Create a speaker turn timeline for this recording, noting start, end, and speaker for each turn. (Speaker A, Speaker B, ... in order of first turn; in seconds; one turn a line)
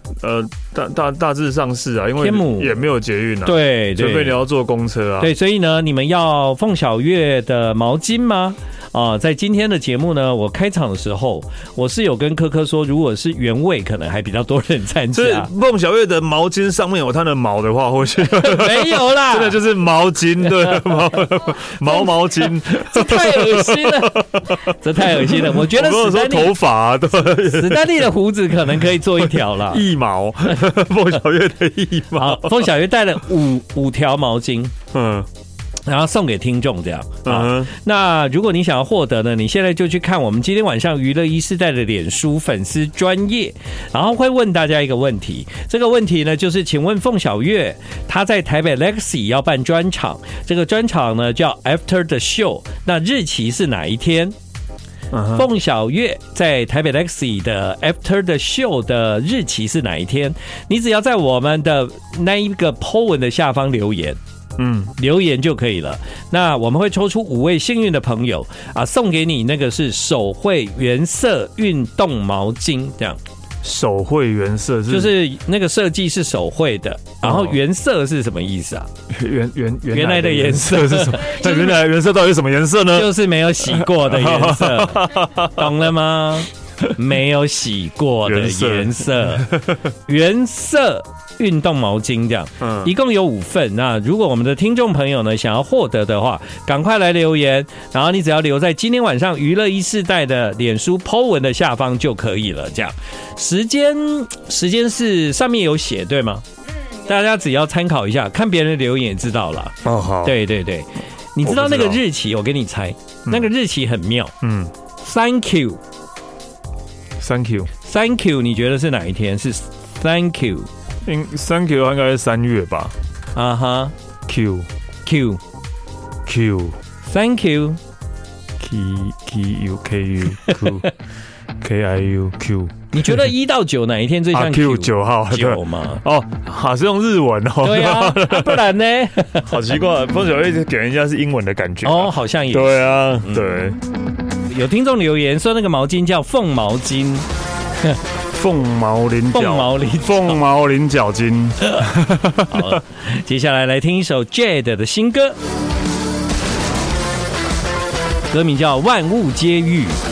Speaker A: 0.2-5.3
Speaker B: 2.2-2.8
Speaker B: 3.4-4.4
Speaker B: 5.2-15.5
Speaker A: 15.1-28.1
Speaker B: 18.3-19.6
Speaker B: 21.8-29.8
Speaker A: 29.2-32.7
Speaker B: 32.1-34.7
Speaker A: 34.9-35.3
Speaker B: 35.9-54.3
Speaker A: 37.2-37.7
Speaker A: 55.1-55.5
Speaker B: 55.3-64.2
Speaker A: 64.6-64.9
Speaker B: 65.0-73.2
Speaker A: 73.6-75.2
Speaker B: 74.9-78.9
Speaker A: 77.2-77.6
Speaker A: 79.1-85.7
Speaker B: 79.9-81.7
Speaker B: 82.9-106.4
Speaker A: 88.2-89.8
Speaker A: 92.6-92.9
Speaker B: 107.0-114.3
Speaker A: 109.8-110.4
Speaker A: 111.4-112.0
Speaker A: 114.4-114.7
Speaker B: 115.0-115.8
Speaker A: 117.2-117.7
Speaker B: 117.8-120.7
Speaker A: 121.0-122.9
Speaker B: 123.3-123.9
Speaker A: 124.3-124.7
Speaker B: 125.0-125.4
Speaker A: 126.2-126.8
Speaker B: 127.0-127.8
Speaker A: 128.6-130.9
Speaker B: 130.4-130.9
Speaker A: 131.6-133.3
Speaker B: 132.9-136.0
Speaker A: 134.3-138.6
Speaker B: 137.6-139.5
Speaker A: 139.4-143.8
Speaker B: 141.8-143.6
Speaker B: 144.5-147.3
Speaker A: 148.3-152.8
Speaker B: 149.3-150.4
Speaker B: 152.5-155.4
Speaker B: 158.3-160.0